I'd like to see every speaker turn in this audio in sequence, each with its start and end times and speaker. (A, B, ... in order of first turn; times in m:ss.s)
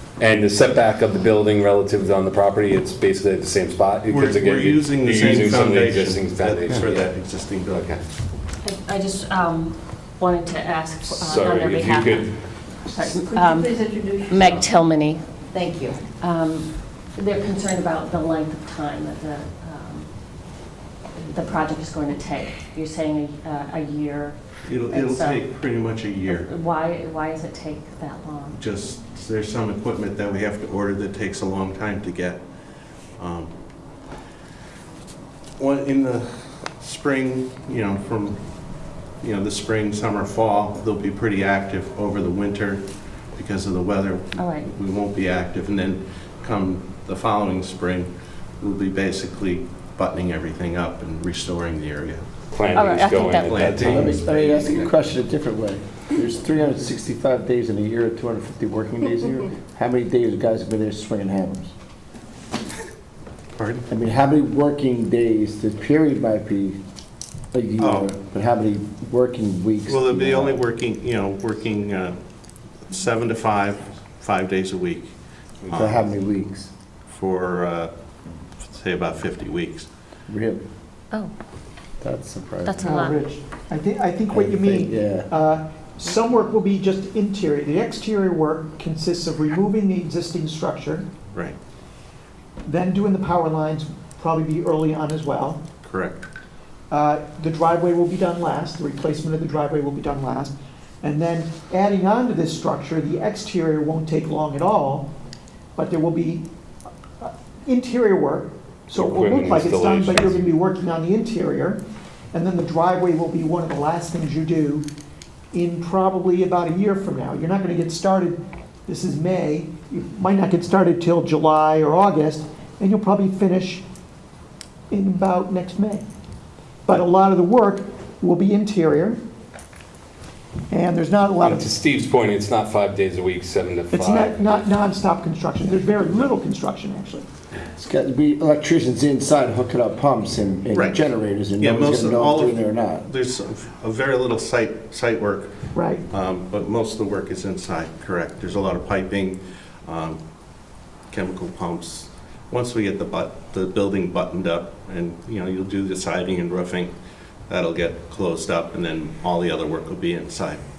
0:00.2-0:07.1 A
0:04.1-0:08.0 B
0:08.6-0:15.2 C
0:11.1-0:12.3 A
0:13.1-0:14.7 D
0:15.5-0:16.0 D
0:16.2-0:25.4 C
0:24.6-0:26.5 B
0:26.2-0:28.6 C
0:28.5-0:32.4 B
0:33.2-0:33.5 B
0:35.6-0:38.4 B
0:39.2-0:52.3 B
0:44.4-0:44.7 C
0:52.5-0:54.0 A
0:52.8-0:53.5 C
0:53.2-0:55.0 B
0:53.8-1:01.7 E
1:03.5-1:03.8 B
1:03.9-1:06.8 E
1:07.5-1:10.6 E
1:07.8-1:08.1 B
1:09.8-1:12.2 B
1:12.8-1:16.0 B
1:15.7-1:16.7 E
1:17.1-1:17.9 B
1:18.6-1:19.9 B
1:20.3-1:20.6 E
1:22.0-1:22.8 E
1:22.6-1:23.2 C
1:22.8-1:31.1 F
1:24.3-1:25.3 E
1:31.3-1:31.6 B
1:32.6-1:35.6 F
1:35.8-1:36.2 B
1:36.9-1:45.1 F
1:45.8-1:46.5 F
1:47.2-1:54.9 F
1:48.9-1:50.4 A
1:55.5-2:03.8 F
2:04.9-2:06.0 F
2:06.8-2:09.2 F
2:10.7-2:11.6 F
2:11.4-2:14.5 A
2:13.9-2:17.3 F
2:17.7-2:23.1 E
2:20.7-2:30.2 B
2:25.7-2:26.0 F
2:31.1-2:36.9 B
2:37.5-2:40.6 B